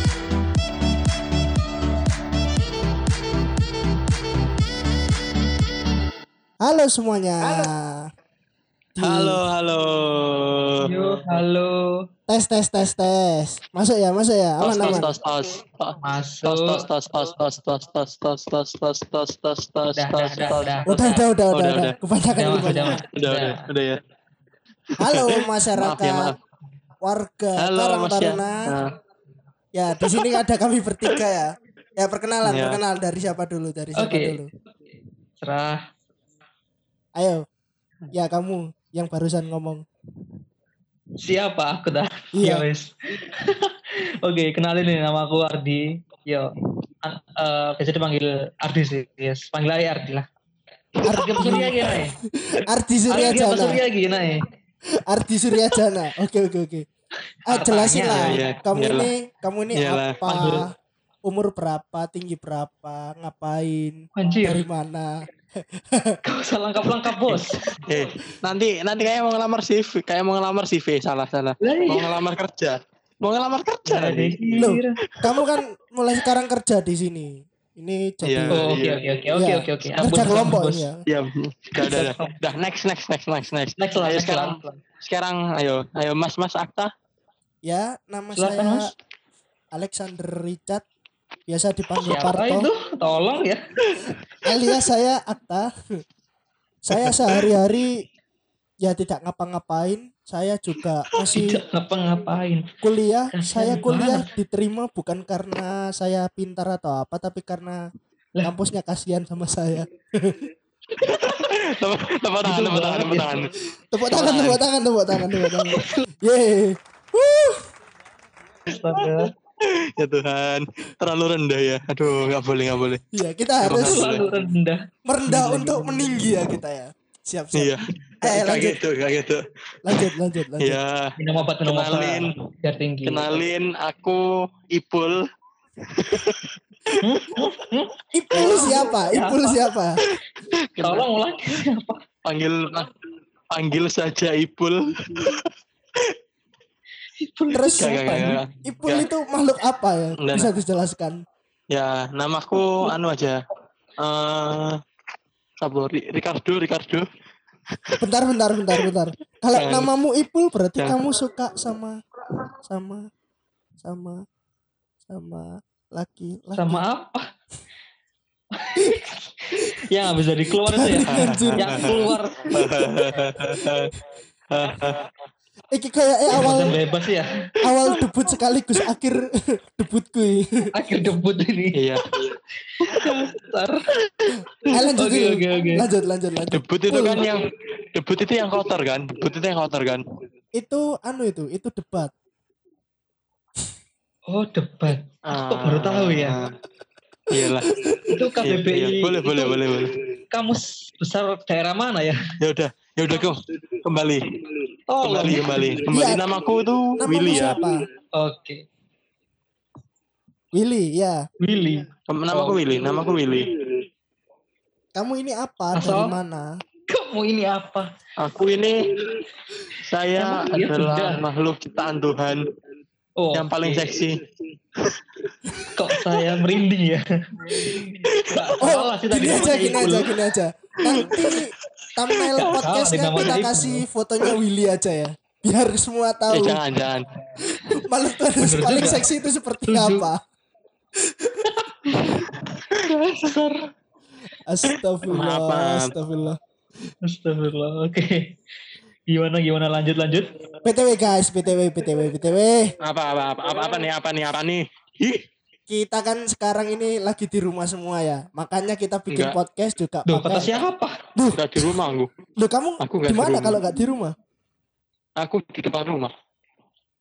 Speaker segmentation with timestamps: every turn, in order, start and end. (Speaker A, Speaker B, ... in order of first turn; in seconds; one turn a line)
Speaker A: 6.6-8.1
Speaker A: 9.0-9.4
Speaker B: 9.0-11.4
Speaker C: 10.8-12.1
Speaker A: 12.3-15.1
Speaker B: 14.6-22.0
Speaker C: 16.0-16.9
Speaker C: 20.0-21.0
Speaker A: 20.9-23.0
Speaker C: 22.4-23.6
Speaker B: 22.5-24.0
Speaker A: 25.0-26.3
Speaker B: 25.0-26.4
Speaker A: 27.0-28.7
Speaker B: 27.6-28.9
Speaker A: 29.7-34.5
Speaker B: 32.4-32.8
Speaker C: 34.0-34.4
Speaker C: 35.4-35.8
Speaker A: 37.2-37.4
Speaker A: 38.1-39.8
Speaker C: 41.2-46.5
Speaker A: 42.3-42.7
Speaker C: 47.0-50.3
Speaker A: 51.0-52.0
Speaker C: 51.1-52.2
Speaker A: 52.5-53.8
Speaker C: 53.1-54.5
Speaker A: 55.1-56.9
Speaker A: 57.5-60.7
Speaker C: 57.5-58.4
Speaker B: 58.2-59.1
Speaker B: 59.7-60.2
Speaker C: 60.2-60.7
Speaker A: 61.2-66.2
Speaker C: 64.2-64.6
Speaker C: 66.2-67.5
Speaker B: 67.3-74.7
Speaker C: 71.6-72.1
Speaker C: 73.9-75.0
Speaker A: 74.6-78.7
Speaker B: 78.2-79.0
Speaker C: 78.5-80.9
Speaker A: 79.3-81.0
Speaker B: 79.9-80.5
Speaker B: 81.1-86.9
Speaker C: 81.8-82.3
Speaker C: 83.8-84.8
Speaker A: 87.7-88.9
Speaker C: 88.3-88.9
Speaker A: 89.7-90.8
Speaker A: 91.5-92.7
Speaker C: 92.0-93.6
Speaker A: 94.4-95.7
Speaker A: 96.8-98.0
Speaker B: 96.9-97.5
Speaker A: 98.8-101.6
Speaker C: 101.3-102.7
Speaker A: 102.8-107.8
Speaker C: 103.4-104.3
Speaker A: 108.4-110.5
Speaker B: 111.0-113.5
Speaker C: 112.4-113.4
Speaker A: 113.9-117.6
Speaker B: 114.1-114.6
Speaker C: 115.7-116.1
Speaker C: 118.7-119.3
Speaker B: 118.8-123.0
Speaker A: 123.1-124.1
Speaker B: 123.6-124.3
Speaker C: 123.8-126.3
Speaker A: 125.1-128.8
Speaker B: 127.5-131.1
Speaker A: 129.8-130.8
Speaker C: 131.2-133.3
Speaker B: 131.7-132.3
Speaker B: 133.1-135.2
Speaker B: 135.9-136.5
Speaker C: 137.0-139.7
Speaker A: 138.1-140.0
Speaker B: 140.7-141.1
Speaker C: 140.8-142.0
Speaker B: 142.2-142.9
Speaker B: 143.5-145.4
Speaker C: 147.2-148.4
Speaker A: 147.5-148.0
Speaker B: 147.8-149.1
Speaker A: 148.6-151.2
Speaker B: 150.2-150.5
Speaker B: 151.7-153.4
Speaker B: 154.0-154.8
Speaker B: 155.6-157.1
Speaker A: 158.0-162.0
Speaker B: 159.6-159.9
Speaker A: 162.7-163.1
Speaker A: 163.8-164.2
Speaker A: 165.1-166.9
Speaker C: 166.5-167.3
Speaker C: 168.6-172.9
Speaker A: 170.7-172.1
Speaker B: 171.1-173.9
Speaker B: 174.5-175.1
Speaker A: 175.7-176.8
Speaker C: 176.4-177.3
Speaker A: 177.6-180.7
Speaker C: 180.8-181.8
Speaker B: 181.8-182.1
Speaker C: 182.8-183.8
Speaker A: 184.7-187.3
Speaker C: 185.0-185.9
Speaker B: 186.5-190.0
Speaker A: 190.5-192.1
Speaker C: 194.3-196.4
Speaker B: 195.3-196.6
Speaker B: 197.3-197.8
Speaker C: 198.1-199.6
Speaker B: 198.4-200.0
Speaker C: 200.3-202.2
Speaker B: 202.4-204.4
Speaker C: 204.9-205.7
Speaker B: 205.0-207.7
Speaker A: 205.9-206.2
Speaker A: 207.0-207.8
Speaker C: 208.1-208.6
Speaker A: 210.5-211.2
Speaker C: 211.4-212.6
Speaker B: 212.1-213.5
Speaker A: 214.9-216.5
Speaker C: 215.7-216.2
Speaker C: 216.9-217.9
Speaker B: 218.2-218.8
Speaker B: 219.8-222.4
Speaker C: 220.2-221.2
Speaker C: 223.2-223.9
Speaker B: 223.3-224.2
Speaker B: 224.8-225.6
Speaker C: 225.7-230.1
Speaker B: 227.6-228.5
Speaker A: 228.6-236.6
Speaker B: 230.9-231.4
Speaker C: 232.4-233.9
Speaker B: 236.3-237.1
Speaker A: 237.7-240.2
Speaker C: 238.4-239.1
Speaker C: 239.7-240.1
Speaker A: 241.2-241.5
Speaker B: 242.5-243.6
Speaker A: 244.5-246.4
Speaker B: 245.1-245.9
Speaker C: 247.1-248.3
Speaker C: 249.1-250.3
Speaker A: 250.6-252.8
Speaker B: 252.8-255.2
Speaker A: 255.7-261.7
Speaker B: 259.1-259.4
Speaker C: 260.1-261.0
Speaker B: 261.3-262.1
Speaker A: 262.4-264.1
Speaker B: 262.8-263.6
Speaker B: 265.2-266.1